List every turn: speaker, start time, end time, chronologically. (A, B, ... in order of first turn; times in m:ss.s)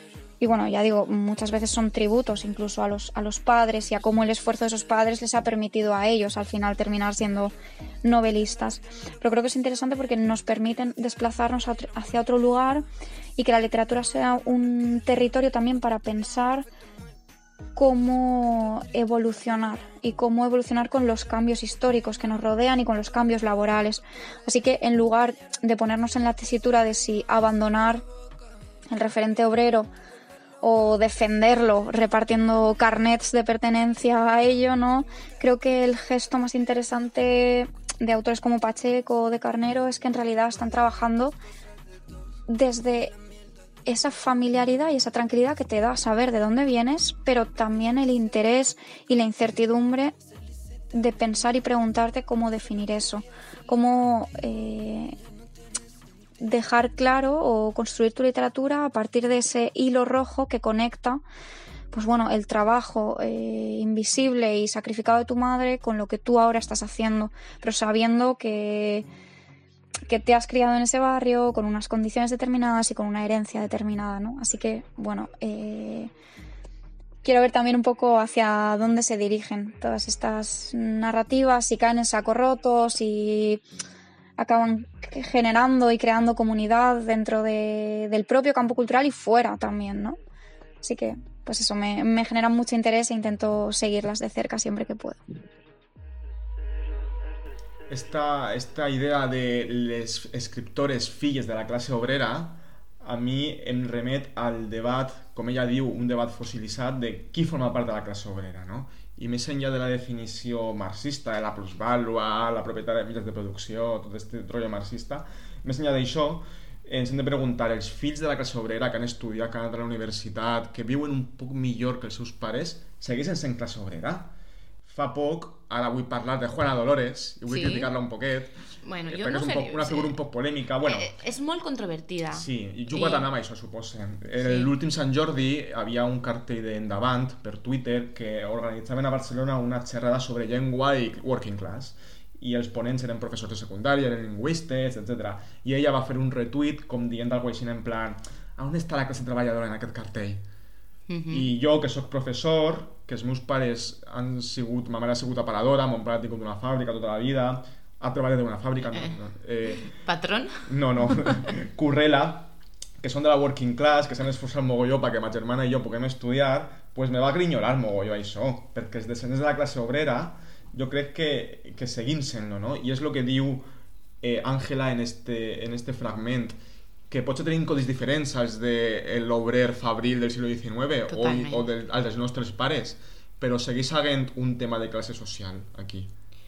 0:00.4-0:12.8 A
0:13.4-0:16.6 A
0:17.7-0:28.0 A
0:28.9-0:29.9 A
0:30.6-0:41.3 A
0:42.5-0:43.1 A
0:43.8-0:50.1 A
0:50.9-0:55.1 A
0:56.4-1:01.2 A
1:01.9-1:09.0 A
1:10.1-1:16.1 A
1:17.2-1:23.6 A
1:24.4-1:30.2 A
1:30.8-1:35.2 A
1:37.9-2:04.3 B
2:04.8-2:11.1 B
2:07.5-2:07.9 C
2:08.8-2:10.1 C
2:10.8-2:13.3 C
2:12.3-2:30.4 B
2:14.4-2:14.7 C
2:31.1-2:31.5 C
2:31.3-2:39.8 B
2:38.9-2:39.2 C
2:39.7-2:40.6 C
2:40.6-2:53.6 B
2:54.2-2:56.6 B
2:57.1-3:06.1 B
3:01.1-3:01.7 C